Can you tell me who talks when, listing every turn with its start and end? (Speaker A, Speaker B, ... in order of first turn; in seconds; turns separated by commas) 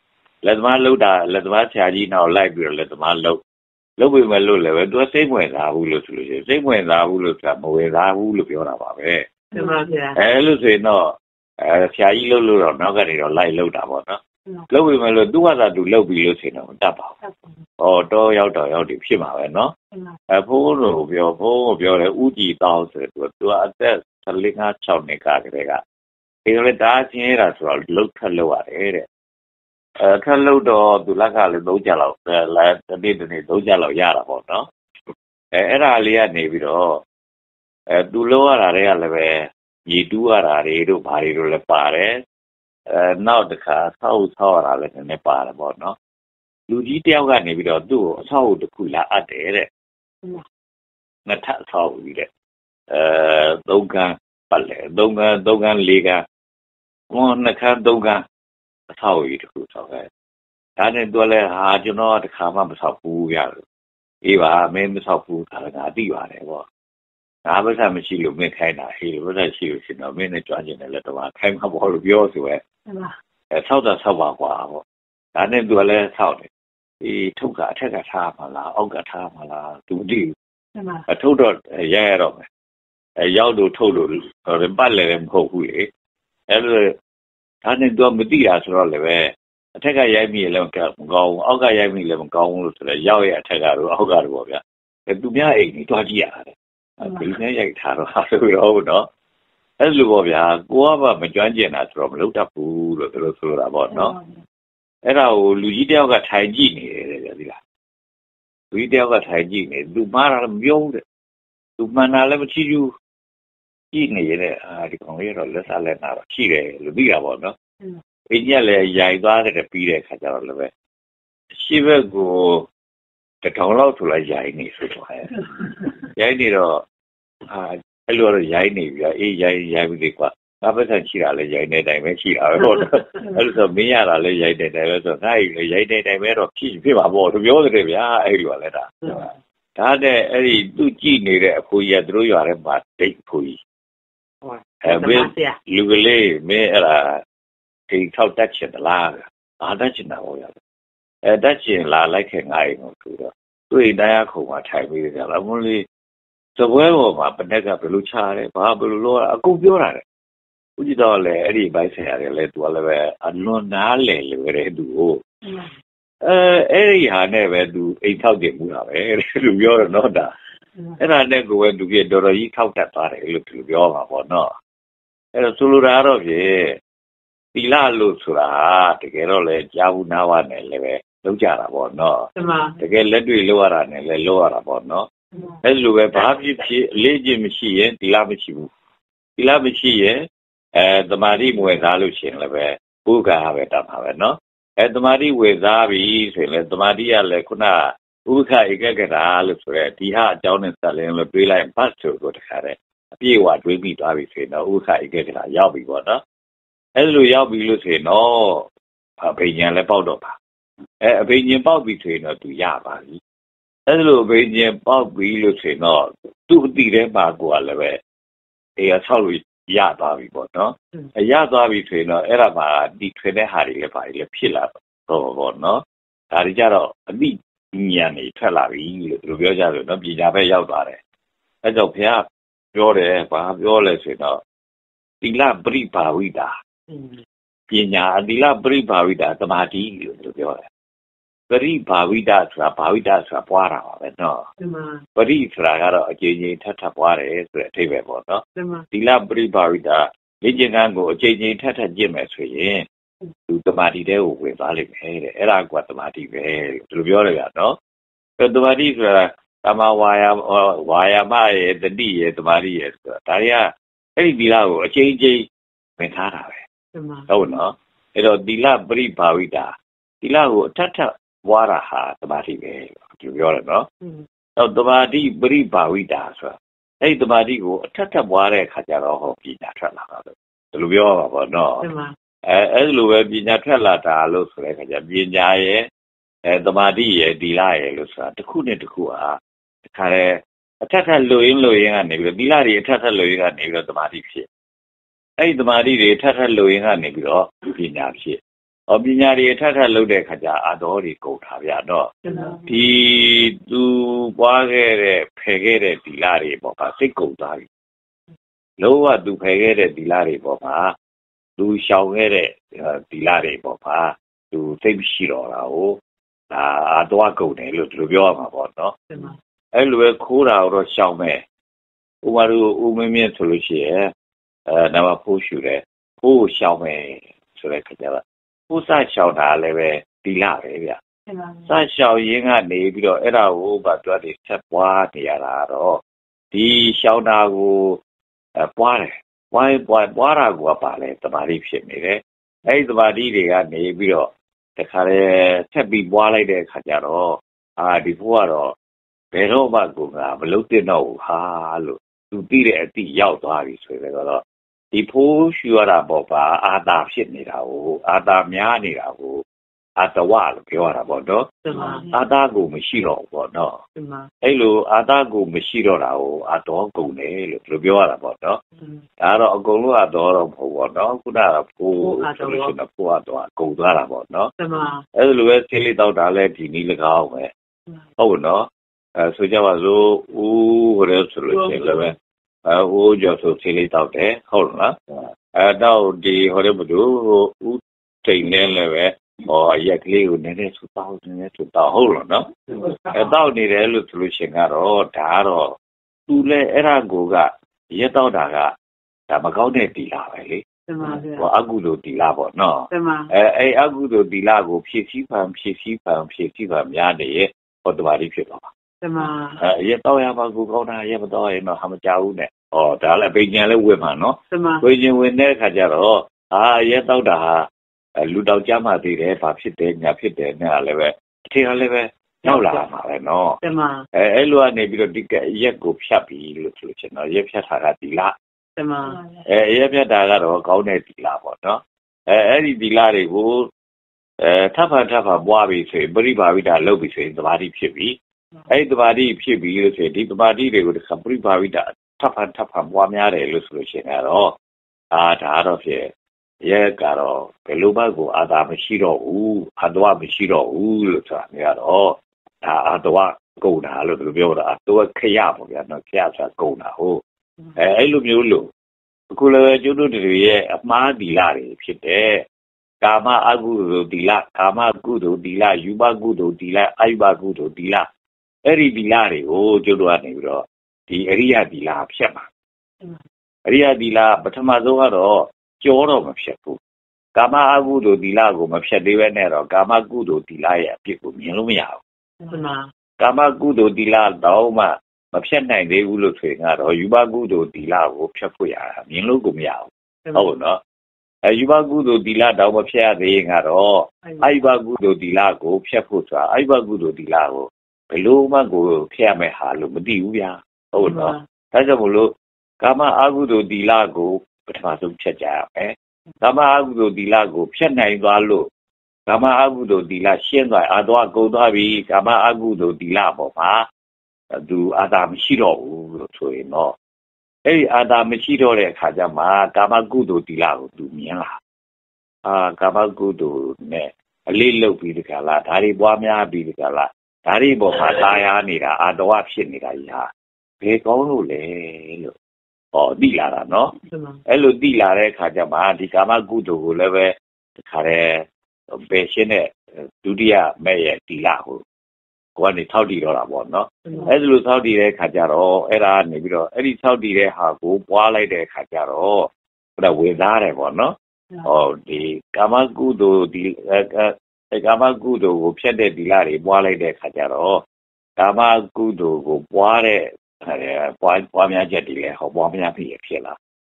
Speaker A: 0.4-3.4, Speaker A: 4.0-9.3, Speaker B: 9.5-10.2, Speaker A: 10.2-17.2, Speaker A: 17.8-19.7, Speaker A: 20.3-25.8, Speaker A: 26.4-29.1, Speaker A: 30.0-34.7, Speaker A: 35.5-37.0, Speaker A: 37.9-42.2, Speaker A: 42.9-46.0, Speaker A: 46.7-49.7, Speaker A: 51.2-52.3, Speaker A: 52.9-56.2, Speaker A: 57.1-58.2, Speaker A: 58.9-60.1, Speaker A: 60.8-63.6, Speaker A: 64.2-66.6, Speaker A: 67.4-72.6, Speaker A: 73.5-74.8, Speaker A: 75.3-76.5, Speaker A: 77.0-80.3, Speaker A: 81.1-82.5, Speaker A: 83.2-85.9, Speaker A: 86.5-87.0, Speaker A: 87.6-99.1, Speaker A: 99.8-104.2, Speaker A: 105.0-107.6, Speaker A: 108.7-111.0, Speaker A: 111.8-112.9, Speaker A: 113.9-117.5, Speaker A: 118.3-120.7, Speaker A: 121.5-122.7, Speaker A: 123.4-125.5, Speaker A: 126.0-126.8, Speaker A: 127.5-143.6, Speaker B: 144.4-145.6, Speaker A: 144.8-147.2, Speaker A: 147.9-150.6, Speaker A: 151.2-155.8, Speaker A: 156.6-160.0, Speaker A: 160.8-165.2, Speaker A: 166.2-170.3, Speaker A: 171.0-174.5, Speaker A: 175.3-176.8, Speaker A: 177.5-185.1, Speaker B: 182.3-182.8, Speaker A: 185.6-188.7, Speaker A: 189.4-206.2, Speaker A: 206.9-208.7, Speaker A: 209.2-210.4, Speaker A: 211.0-213.2, Speaker A: 213.9-218.0, Speaker A: 218.8-231.0, Speaker A: 231.6-234.4, Speaker A: 235.2-236.6, Speaker B: 236.9-237.2, Speaker A: 237.7-240.7, Speaker A: 241.5-244.5, Speaker B: 244.6-245.0, Speaker A: 245.2-252.9, Speaker B: 248.6-248.8, Speaker A: 253.5-257.8, Speaker A: 258.4-265.5, Speaker A: 266.0-266.6, Speaker B: 266.9-267.3, Speaker A: 267.3-273.9, Speaker A: 274.6-281.9, Speaker B: 281.8-282.1, Speaker A: 282.4-285.9, Speaker A: 286.4-294.5, Speaker A: 295.4-302.1, Speaker B: 302.2-302.6, Speaker A: 302.6-307.7, Speaker A: 308.8-310.9, Speaker A: 311.6-318.9, Speaker B: 319.1-319.4, Speaker A: 319.7-321.4, Speaker A: 322.2-324.1, Speaker A: 324.7-331.0, Speaker A: 331.7-338.0, Speaker A: 338.6-348.8, Speaker A: 349.3-359.4, Speaker A: 360.0-363.8, Speaker B: 361.6-362.1, Speaker B: 363.9-364.3, Speaker A: 364.4-368.6, Speaker A: 369.2-374.5, Speaker B: 372.0-372.7, Speaker B: 374.6-375.0, Speaker A: 375.1-377.5, Speaker A: 378.2-385.0, Speaker A: 385.5-392.5, Speaker A: 393.1-398.7, Speaker A: 399.3-400.6, Speaker B: 400.9-401.5, Speaker A: 401.4-408.7, Speaker B: 402.9-403.3, Speaker B: 409.0-409.6, Speaker A: 409.6-423.6, Speaker B: 414.5-414.8, Speaker B: 422.4-422.8, Speaker B: 423.6-424.0, Speaker A: 424.1-428.3, Speaker B: 428.8-429.2, Speaker A: 429.4-433.7, Speaker A: 434.4-438.2, Speaker A: 438.7-444.6, Speaker A: 445.1-446.1, Speaker A: 446.6-457.2, Speaker A: 457.8-458.7, Speaker A: 459.3-462.5, Speaker A: 463.0-468.1, Speaker A: 468.6-472.5, Speaker A: 473.7-476.8, Speaker A: 477.4-482.0, Speaker B: 482.5-482.9, Speaker A: 483.2-490.8, Speaker A: 491.4-508.7, Speaker B: 494.2-494.5, Speaker B: 501.0-501.4, Speaker A: 509.3-513.9, Speaker A: 514.5-517.0, Speaker A: 517.6-521.6, Speaker A: 522.4-530.3, Speaker A: 530.8-532.3, Speaker A: 532.9-533.9, Speaker B: 534.1-534.4, Speaker A: 534.5-541.8, Speaker A: 542.6-557.8, Speaker B: 544.0-544.3, Speaker A: 558.4-563.6